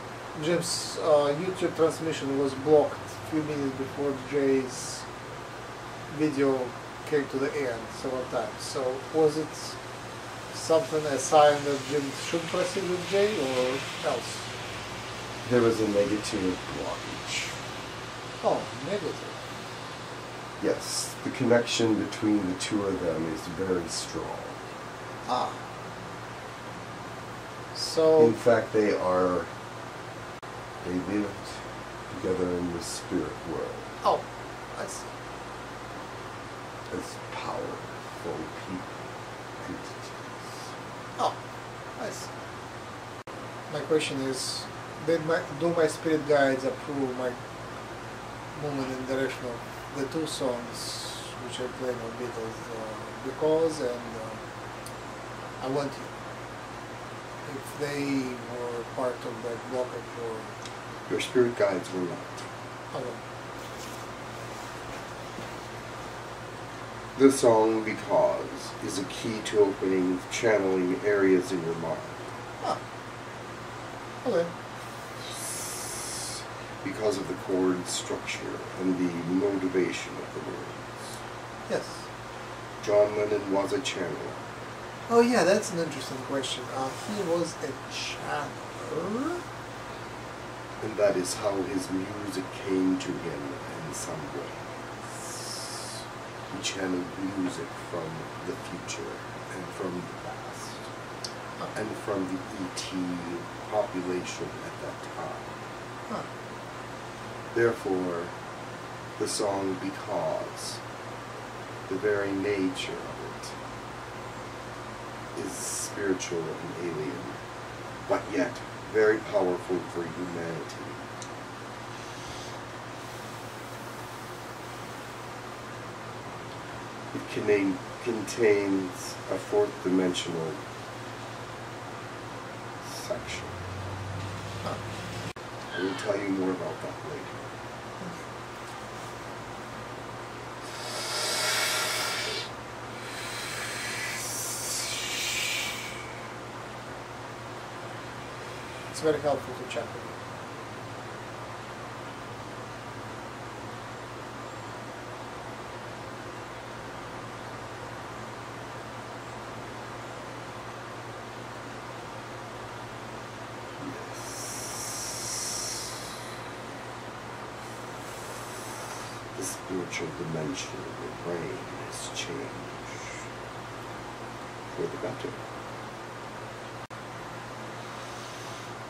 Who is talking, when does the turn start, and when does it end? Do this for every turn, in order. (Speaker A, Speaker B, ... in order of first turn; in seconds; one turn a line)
Speaker A: 0.3-5.1
Speaker A: 6.1-9.8
Speaker A: 10.5-14.5
Speaker B: 15.4-17.6
Speaker A: 18.4-19.4
Speaker B: 20.6-24.7
Speaker A: 25.3-25.6
Speaker A: 27.7-28.4
Speaker B: 28.2-29.5
Speaker B: 30.8-34.0
Speaker A: 34.0-35.1
Speaker B: 36.9-40.7
Speaker A: 42.0-42.3
Speaker A: 43.7-47.4
Speaker A: 48.5-54.4
Speaker A: 55.6-56.1
Speaker A: 57.4-60.5
Speaker B: 61.1-62.5
Speaker A: 62.9-63.2
Speaker B: 67.2-72.3
Speaker A: 74.2-74.5
Speaker B: 75.4-81.0
Speaker A: 81.7-82.1
Speaker B: 82.8-84.4
Speaker A: 85.1-89.4
Speaker B: 90.8-94.7
Speaker B: 96.5-100.9
Speaker B: 101.7-105.5
Speaker B: 107.5-108.3
Speaker B: 109.2-110.8
Speaker B: 111.9-113.6
Speaker B: 115.3-117.4
Speaker B: 118.1-121.0
Speaker B: 127.1-130.6
Speaker B: 132.8-133.7
Speaker B: 135.7-137.5
Speaker A: 148.9-150.2
Speaker B: 163.8-165.3
Speaker B: 169.3-173.3
Speaker B: 174.7-175.4